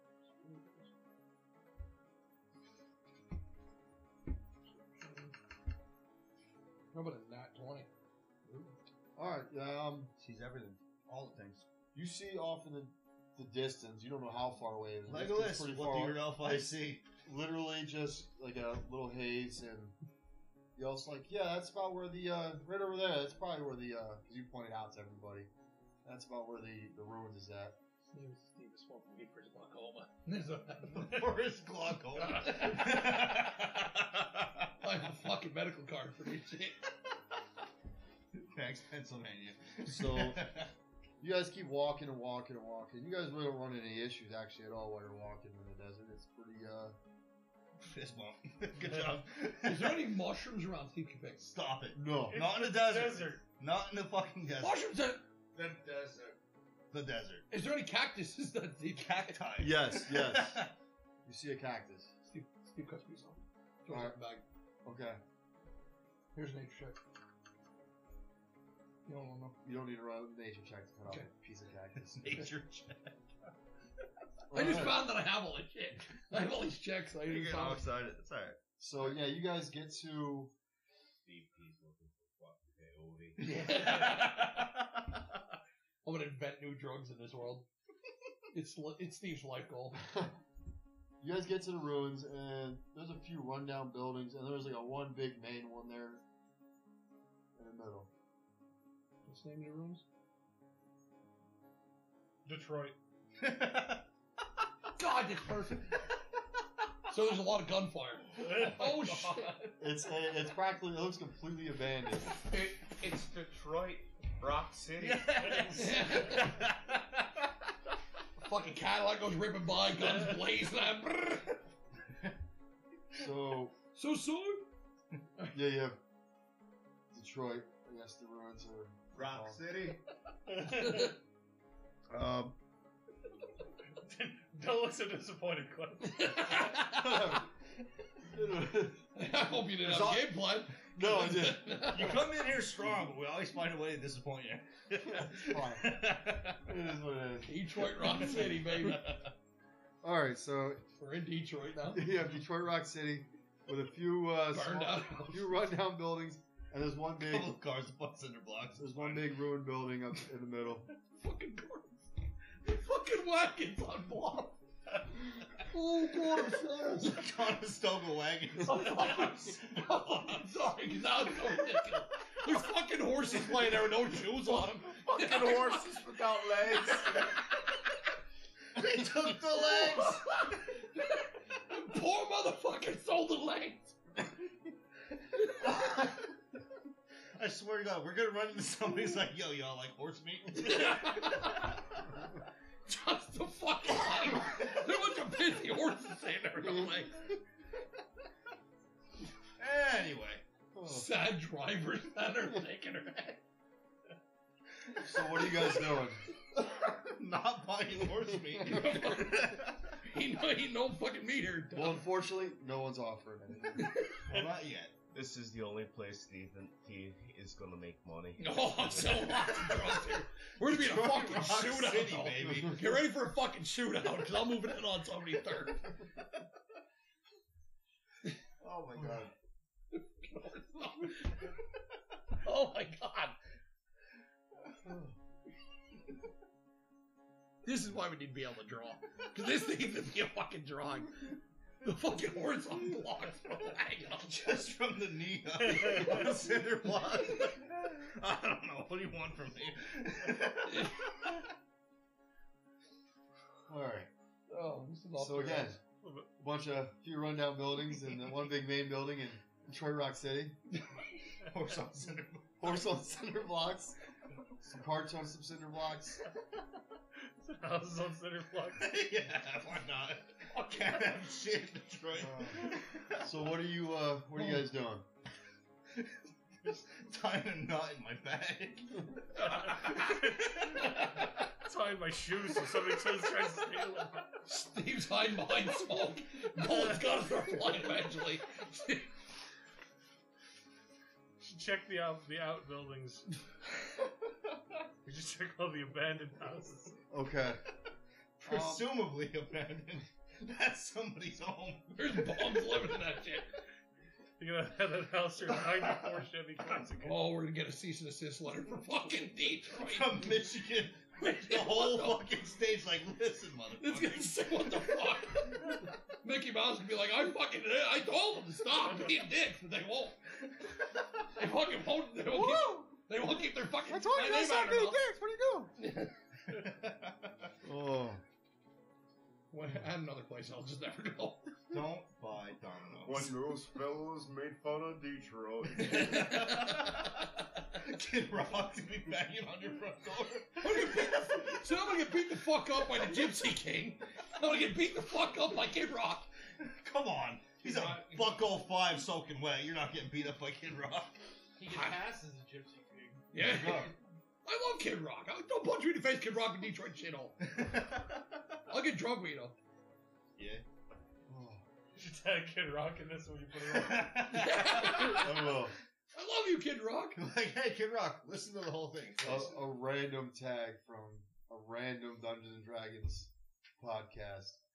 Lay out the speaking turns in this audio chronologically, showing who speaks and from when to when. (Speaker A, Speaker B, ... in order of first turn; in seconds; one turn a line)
Speaker A: 0.2-0.9
Speaker A: 4.7-5.3
Speaker A: 6.9-7.9
Speaker B: 8.5-10.1
Speaker C: 10.2-11.7
Speaker B: 11.9-19.9
Speaker C: 15.1-17.0
Speaker B: 20.7-25.5
Speaker B: 26.0-27.8
Speaker A: 28.1-31.3
Speaker C: 30.9-34.7
Speaker A: 32.2-33.4
Speaker A: 34.8-36.8
Speaker C: 38.3-40.7
Speaker B: 39.9-40.5
Speaker B: 41.2-47.0
Speaker C: 47.8-50.1
Speaker A: 49.6-51.5
Speaker C: 51.4-54.9
Speaker B: 51.9-52.4
Speaker D: 52.3-53.4
Speaker A: 54.6-55.2
Speaker C: 55.5-56.4
Speaker C: 56.9-57.4
Speaker A: 57.5-59.4
Speaker C: 59.0-60.7
Speaker B: 59.6-60.6
Speaker B: 61.2-62.1
Speaker A: 62.2-64.4
Speaker B: 63.9-64.2
Speaker B: 64.8-65.2
Speaker A: 66.3-67.0
Speaker A: 69.0-69.5
Speaker B: 69.6-72.5
Speaker C: 72.0-73.2
Speaker B: 74.5-75.1
Speaker A: 74.5-77.8
Speaker C: 77.2-78.6
Speaker B: 78.8-80.5
Speaker E: 81.2-83.6
Speaker A: 83.4-84.7
Speaker C: 83.5-85.0
Speaker A: 86.0-87.7
Speaker A: 88.5-90.0
Speaker B: 90.0-90.3
Speaker B: 91.2-96.2
Speaker B: 97.5-98.1
Speaker A: 99.2-100.0
Speaker D: 102.5-103.0
Speaker C: 103.4-104.0
Speaker A: 105.0-105.9
Speaker A: 107.1-109.7
Speaker D: 108.4-109.7
Speaker B: 109.8-112.4
Speaker D: 112.5-116.4
Speaker C: 115.0-117.2
Speaker A: 115.7-116.5
Speaker A: 118.4-121.5
Speaker B: 123.1-123.7
Speaker A: 123.9-124.7
Speaker B: 125.5-126.0
Speaker B: 127.1-129.6
Speaker C: 129.1-130.0
Speaker D: 130.4-131.1
Speaker A: 130.7-131.1
Speaker B: 132.1-132.5
Speaker D: 134.0-136.8
Speaker A: 136.2-136.8
Speaker B: 136.8-137.5
Speaker B: 138.2-139.0
Speaker A: 139.1-142.3
Speaker C: 139.8-140.6
Speaker B: 140.9-141.9
Speaker C: 141.8-146.7
Speaker B: 145.0-147.6
Speaker A: 147.4-149.2
Speaker C: 148.1-149.3
Speaker B: 150.0-150.8
Speaker A: 151.0-152.1
Speaker B: 151.9-157.6
Speaker A: 154.5-155.6
Speaker C: 157.2-159.3
Speaker B: 158.8-160.9
Speaker A: 161.1-162.1
Speaker A: 162.6-164.6
Speaker A: 165.6-167.2
Speaker C: 167.0-169.6
Speaker A: 168.6-176.2
Speaker B: 176.1-176.5
Speaker C: 176.7-177.6
Speaker C: 178.7-180.5
Speaker A: 179.7-184.0
Speaker C: 185.6-186.2
Speaker C: 187.3-191.8
Speaker A: 190.6-191.8
Speaker A: 192.9-197.3
Speaker B: 196.6-197.1
Speaker C: 199.6-200.4
Speaker B: 200.7-201.1
Speaker A: 200.8-203.4
Speaker B: 205.0-206.2
Speaker C: 206.6-209.9
Speaker A: 208.6-212.1
Speaker B: 211.7-213.9
Speaker A: 213.8-214.1
Speaker C: 214.2-214.9
Speaker E: 215.1-219.6
Speaker A: 218.4-225.9
Speaker C: 219.1-219.7
Speaker C: 220.6-222.9
Speaker C: 228.6-229.3
Speaker A: 229.9-231.4
Speaker A: 232.4-233.4
Speaker B: 234.8-235.1
Speaker A: 237.6-244.6
Speaker C: 244.2-251.4
Speaker D: 245.7-246.2
Speaker A: 250.7-251.1
Speaker B: 253.7-254.1
Speaker A: 254.5-255.8
Speaker B: 255.2-255.8
Speaker D: 255.9-256.3
Speaker B: 256.4-260.6
Speaker C: 261.4-262.9
Speaker B: 262.6-264.0
Speaker B: 264.6-266.3
Speaker D: 267.2-268.9
Speaker C: 268.7-273.3
Speaker B: 272.2-275.0
Speaker C: 275.9-280.7
Speaker D: 279.4-284.4
Speaker A: 284.4-289.1
Speaker D: 291.4-293.4
Speaker D: 295.0-297.0
Speaker B: 297.1-297.6
Speaker C: 298.4-303.0
Speaker B: 298.4-298.9
Speaker A: 302.0-303.5
Speaker D: 304.4-307.2
Speaker A: 307.0-310.4
Speaker C: 309.7-314.3
Speaker A: 311.2-312.2
Speaker A: 313.8-320.2
Speaker D: 318.9-319.2
Speaker A: 321.3-325.0
Speaker B: 322.3-323.0
Speaker B: 323.8-325.7
Speaker C: 326.4-327.5
Speaker B: 327.6-328.2
Speaker A: 329.5-331.5
Speaker C: 331.7-333.3
Speaker B: 333.0-336.0
Speaker C: 335.7-341.6
Speaker A: 335.9-336.8
Speaker F: 339.3-340.3
Speaker A: 340.6-346.3
Speaker C: 346.6-351.2
Speaker F: 347.6-348.5
Speaker F: 351.6-353.3
Speaker A: 351.7-352.0
Speaker A: 353.3-353.9
Speaker C: 353.3-354.0
Speaker A: 354.4-357.4
Speaker C: 357.4-358.6
Speaker A: 358.7-359.5
Speaker C: 360.4-360.6
Speaker B: 361.3-361.6
Speaker D: 361.9-364.5
Speaker C: 363.6-365.4
Speaker A: 364.3-365.4
Speaker B: 365.0-365.7
Speaker A: 366.1-367.2
Speaker C: 367.1-369.6
Speaker B: 369.2-374.6